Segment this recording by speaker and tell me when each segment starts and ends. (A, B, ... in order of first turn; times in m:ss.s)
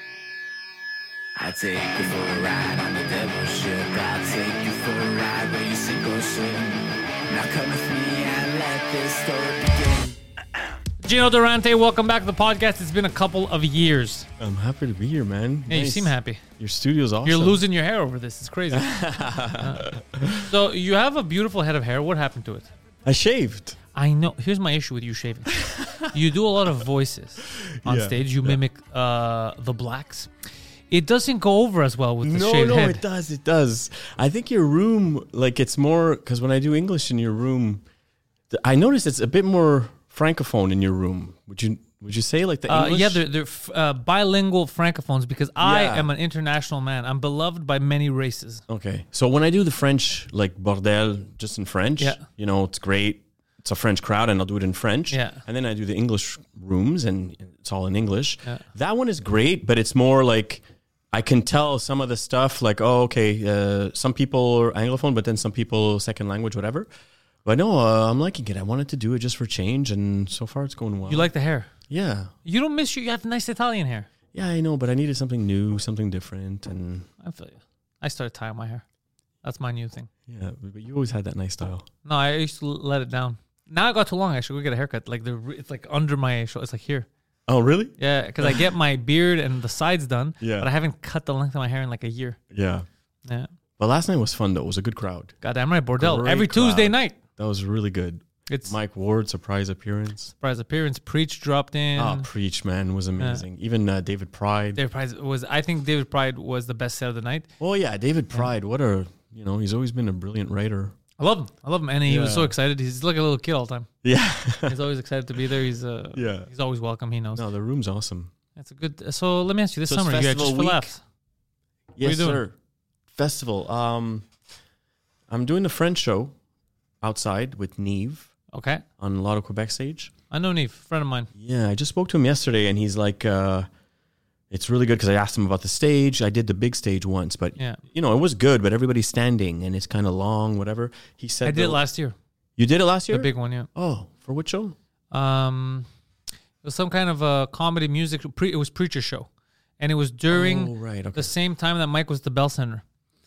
0:01.4-0:10.2 A
0:11.0-0:14.3 B
0:14.4-0:17.6 C
0:15.7-0:16.4 B
0:17.2-0:18.9 B
0:18.7-0:20.5 C
0:19.6-0:19.9 B
0:20.4-0:22.6 B
0:23.0-0:23.8 C
0:23.9-0:30.3 B
0:25.6-0:26.1 C
0:27.6-0:28.6 C
0:30.9-0:33.0 B
0:32.2-0:37.8 C
0:38.5-0:43.2 C
0:42.7-0:48.6 B
0:45.6-0:46.1 C
0:48.7-1:06.9 C
0:55.1-0:55.4 B
1:07.4-1:11.3 C
1:11.1-1:11.7 B
1:11.9-1:12.3 C
1:12.4-1:14.1 B
1:14.3-1:17.1 C
1:17.2-1:18.8 B
1:19.4-1:20.1 B
1:20.3-1:21.8 C
1:22.0-1:27.1 B
1:27.5-1:28.6 C
1:28.0-1:32.4 B
1:30.4-1:30.7 C
1:32.5-1:32.8 C
1:33.8-1:35.3 C
1:35.4-1:37.2 B
1:36.0-1:40.3 C
1:38.5-1:38.8 B
1:40.4-1:42.3 B
1:42.0-1:44.8 C
1:44.7-1:47.5 B
1:47.6-1:50.9 C
1:51.2-1:53.9 B
1:52.0-1:52.5 C
1:54.0-1:54.8 C
1:54.7-1:57.4 B
1:56.1-1:56.5 C
1:57.3-1:58.3 C
1:58.6-2:01.0 B
1:59.9-2:00.9 C
2:02.0-2:02.5 C
2:02.0-2:02.4 B
2:03.1-2:04.2 C
2:05.3-2:06.4 C
2:07.0-2:08.3 C
2:08.5-2:08.8 B
2:09.0-2:10.1 C
2:10.3-2:11.3 B
2:11.3-2:13.7 C
2:14.5-2:21.8 C
2:21.4-2:22.2 B
2:22.6-2:24.8 C
2:23.1-2:23.7 B
2:25.1-2:25.9 B
2:26.6-2:29.3 B
2:29.8-2:32.8 B
2:30.3-2:31.3 C